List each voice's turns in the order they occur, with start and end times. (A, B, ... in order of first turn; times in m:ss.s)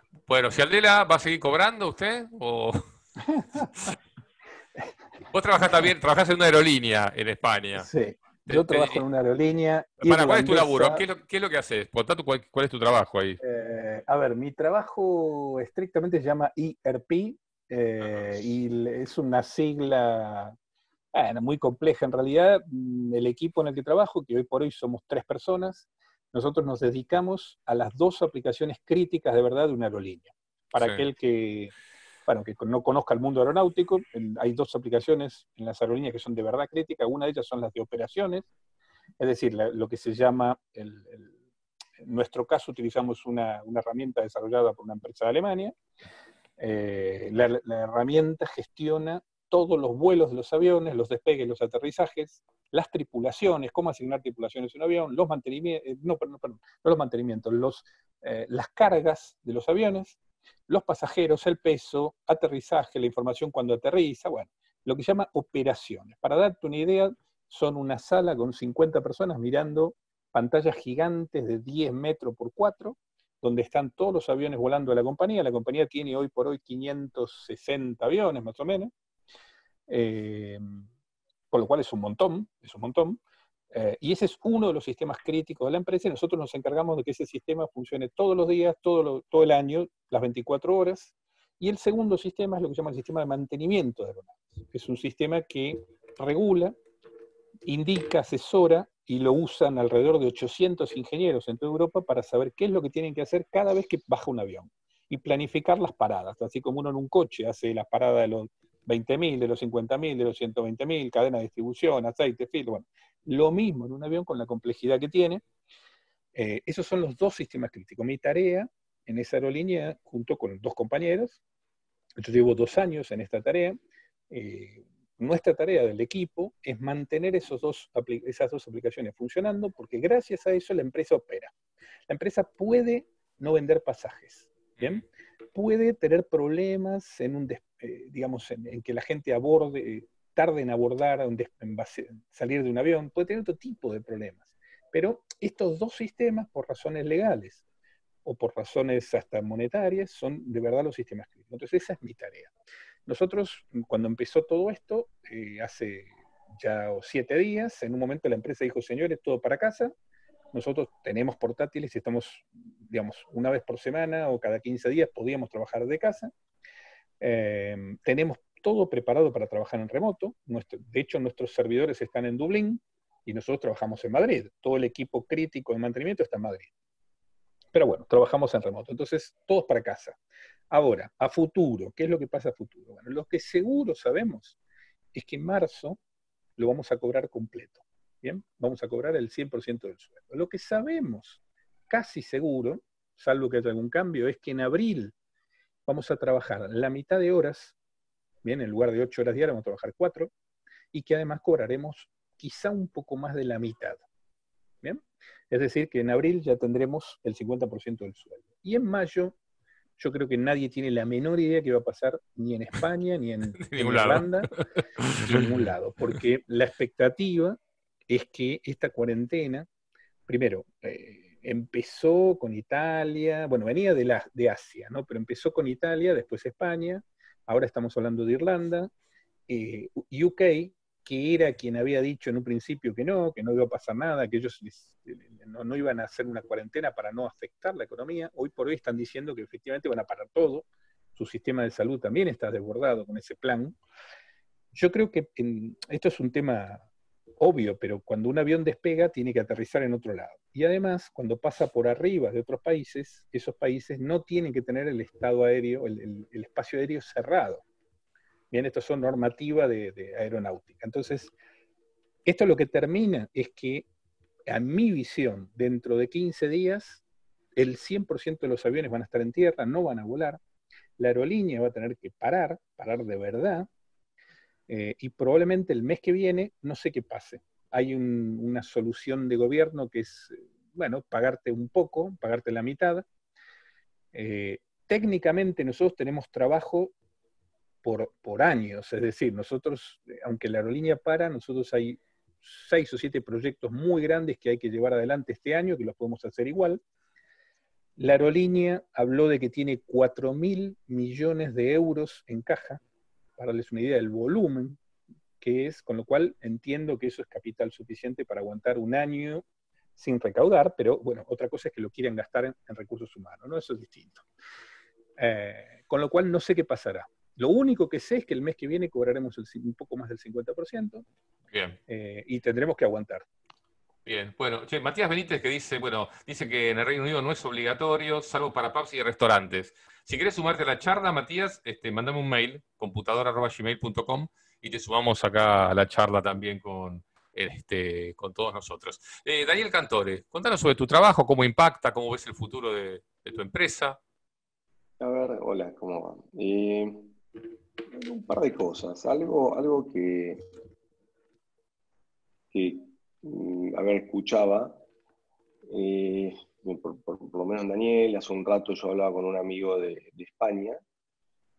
0:00.2-0:02.8 A
0:03.2-0:03.8 B
0:05.3-0:07.9 A
0:07.8-0:11.0 B
0:08.4-0:09.0 A
0:10.0-0:13.4 A
0:13.4-0:20.6 B
0:21.1-0:31.7 B
0:30.8-0:31.0 A
0:32.3-0:38.5 B
0:39.2-0:41.3 B
0:42.0-0:45.7 B
0:46.6-1:00.2 B
1:00.7-1:18.9 B
1:19.9-1:20.8 B
1:21.5-1:23.2 B
1:23.7-1:36.8 B
1:37.6-1:55.4 B
1:56.3-2:01.4 B
2:02.2-2:11.5 B
2:12.1-2:27.6 B
2:14.8-2:15.0 A
2:28.2-2:32.5 B
2:33.1-2:39.9 B
2:40.5-2:46.3 B
2:47.2-2:56.7 B
2:57.7-3:00.2 B
3:00.7-3:04.6 B
3:05.1-3:06.0 B
3:06.6-3:15.1 B
3:15.8-3:17.7 B
3:18.4-3:20.3 B
3:20.9-3:24.0 B
3:24.8-3:29.4 B
3:30.0-3:34.5 B
3:33.6-3:35.7 A
3:35.2-3:39.7 B
3:40.3-3:48.9 B
3:49.5-4:03.8 B
4:04.7-4:06.8 B
4:07.4-4:17.6 B
4:18.5-4:21.3 B
4:22.2-4:23.9 B
4:24.5-4:27.0 B
4:27.6-4:30.4 B
4:31.0-4:33.7 B
4:34.7-4:43.1 B
4:44.1-4:46.9 B
4:47.8-4:56.8 B
4:58.0-5:02.8 B
5:03.4-5:04.8 B
5:05.4-5:09.4 B
5:10.0-5:14.2 B
5:15.2-5:21.0 B
5:21.5-5:21.8 A
5:21.9-5:23.2 B
5:24.0-5:44.0 A
5:45.0-5:47.1 C
5:47.9-5:50.5 C
5:52.5-5:54.8 C
5:55.7-6:00.8 C